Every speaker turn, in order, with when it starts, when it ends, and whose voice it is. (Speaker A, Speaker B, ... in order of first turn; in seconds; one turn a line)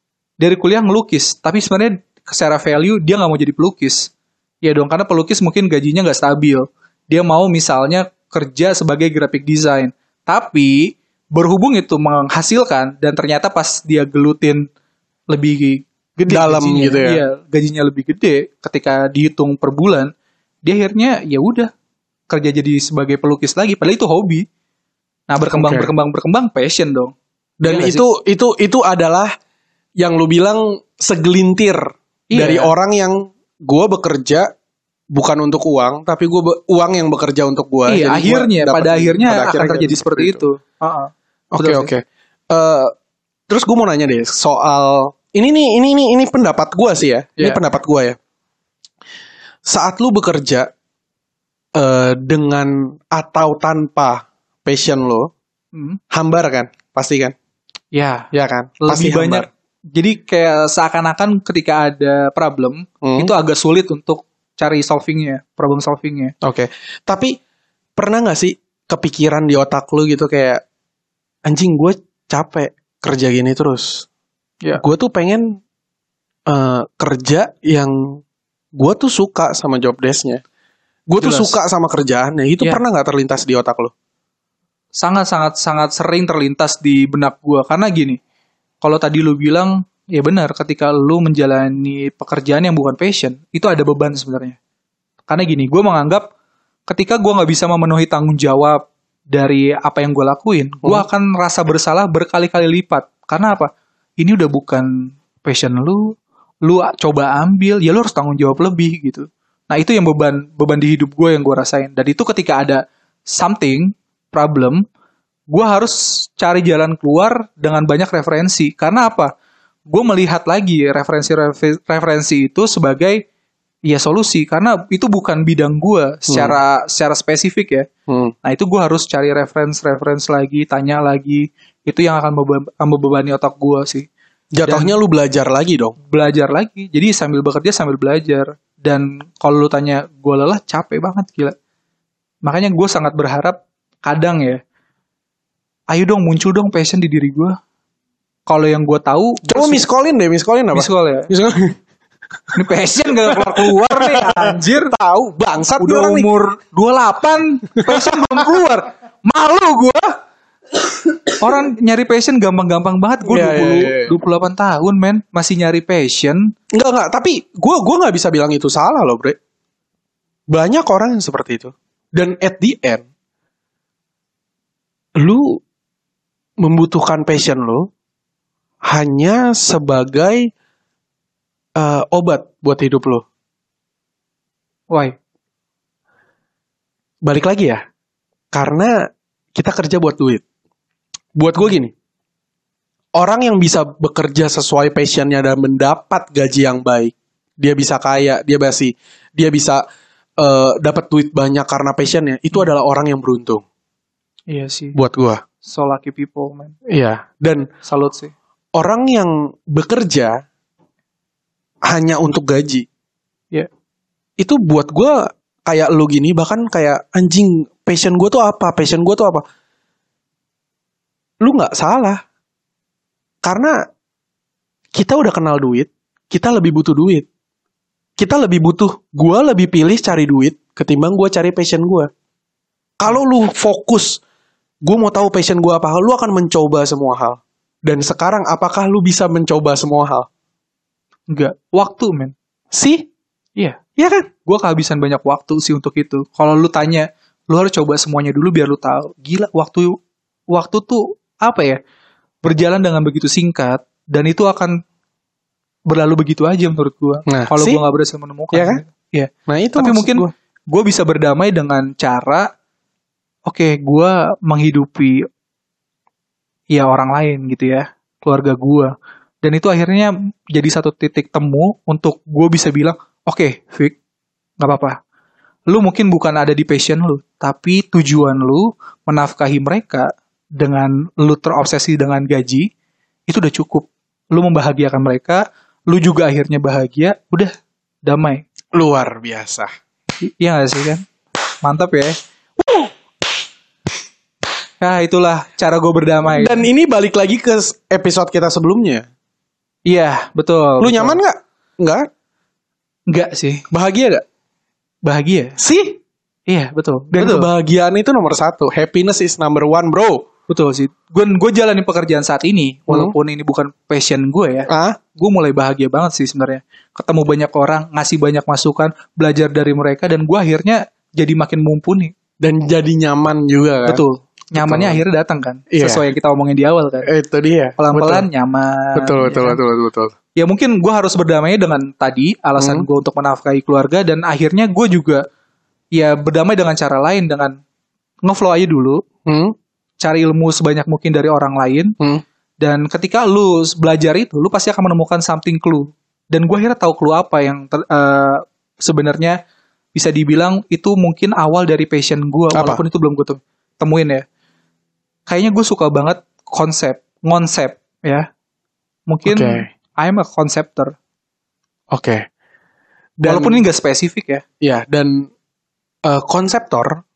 Speaker A: 0.4-4.1
Speaker A: 4.6-14.7
Speaker A: 15.3-20.1
Speaker B: 16.3-17.2
Speaker A: 20.6-21.7
Speaker A: 22.3-24.4
Speaker A: 25.3-27.1
Speaker B: 25.5-25.9
Speaker B: 27.6-29.3
Speaker A: 27.6-28.0
Speaker B: 30.0-34.5
Speaker A: 32.3-32.7
Speaker B: 35.1-40.4
Speaker A: 37.9-41.9
Speaker B: 41.5-42.9
Speaker B: 43.5-48.2
Speaker B: 49.6-50.7
Speaker B: 51.8-55.3
Speaker A: 55.7-56.0
Speaker B: 56.1-57.3
Speaker A: 57.9-58.3
Speaker B: 58.3-59.5
Speaker A: 58.8-66.3
Speaker B: 63.0-63.3
Speaker B: 66.4-67.3
Speaker B: 68.0-70.6
Speaker B: 71.5-74.0
Speaker B: 74.8-75.6
Speaker B: 76.5-78.2
Speaker B: 78.8-80.4
Speaker B: 81.1-83.9
Speaker A: 81.2-81.5
Speaker A: 85.0-88.2
Speaker A: 88.8-94.6
Speaker A: 95.3-96.3
Speaker A: 96.9-114.8
Speaker A: 115.5-119.3
Speaker A: 119.9-123.2
Speaker A: 123.8-127.9
Speaker B: 126.3-126.6
Speaker B: 128.1-128.3
Speaker A: 128.4-134.1
Speaker B: 134.5-135.9
Speaker A: 134.6-134.9
Speaker A: 136.0-141.5
Speaker A: 142.4-144.6
Speaker A: 145.9-147.6
Speaker A: 148.5-149.8
Speaker B: 149.4-151.8
Speaker A: 150.7-151.3
Speaker A: 152.5-154.9
Speaker B: 153.2-156.3
Speaker A: 155.8-160.1
Speaker B: 157.9-158.2
Speaker A: 161.4-166.5
Speaker B: 163.2-164.1
Speaker B: 166.7-169.4
Speaker B: 170.5-173.1
Speaker B: 175.2-175.6
Speaker B: 176.6-177.9
Speaker B: 178.8-180.5
Speaker B: 181.8-183.2
Speaker B: 187.2-187.8
Speaker B: 188.5-188.9
Speaker B: 189.5-190.4
Speaker B: 191.3-191.9
Speaker B: 193.2-199.8
Speaker B: 200.4-203.6
Speaker A: 204.5-205.0
Speaker B: 204.9-205.4
Speaker A: 205.6-206.7
Speaker B: 206.9-207.7
Speaker A: 207.8-208.3
Speaker B: 208.7-210.4
Speaker B: 211.9-212.8
Speaker B: 214.4-219.4
Speaker B: 221.4-222.2
Speaker B: 223.4-223.8
Speaker B: 224.9-227.3
Speaker B: 228.2-232.1
Speaker B: 233.0-234.2
Speaker B: 234.8-240.3
Speaker A: 241.3-242.3
Speaker B: 242.7-243.1
Speaker B: 244.0-244.3
Speaker A: 244.4-249.9
Speaker A: 250.5-251.8
Speaker A: 252.4-254.8
Speaker A: 255.9-262.5
Speaker B: 257.3-257.8
Speaker B: 258.5-258.8
Speaker B: 259.5-260.3
Speaker A: 263.5-265.2
Speaker A: 266.7-273.9
Speaker A: 274.6-275.0
Speaker A: 275.7-282.7
Speaker A: 283.3-287.5
Speaker A: 288.1-288.4
Speaker B: 288.7-289.7
Speaker A: 290.2-291.0
Speaker A: 291.6-292.2
Speaker A: 294.8-296.7
Speaker B: 296.3-299.0
Speaker A: 299.9-301.2
Speaker B: 300.8-302.1
Speaker A: 303.1-303.6
Speaker B: 303.7-304.2
Speaker A: 305.1-305.6
Speaker B: 305.6-306.0
Speaker A: 306.5-307.5
Speaker B: 307.1-310.2
Speaker A: 310.5-322.1
Speaker B: 312.9-313.1
Speaker B: 314.7-315.0
Speaker B: 322.4-324.0
Speaker A: 323.8-327.1
Speaker B: 324.6-325.0
Speaker B: 325.7-326.0
Speaker B: 327.1-328.3
Speaker A: 327.8-329.6
Speaker B: 328.9-330.1
Speaker A: 330.4-335.2
Speaker B: 332.6-332.9
Speaker A: 335.9-337.6
Speaker A: 338.2-339.0
Speaker B: 339.2-339.5
Speaker A: 340.0-341.9
Speaker A: 342.6-349.4
Speaker A: 349.9-354.2
Speaker B: 352.5-352.8
Speaker A: 355.3-358.3
Speaker A: 359.1-360.9
Speaker B: 359.2-359.7
Speaker B: 361.9-362.2
Speaker B: 363.2-363.6
Speaker A: 363.2-364.4
Speaker B: 364.6-365.3
Speaker B: 366.1-367.0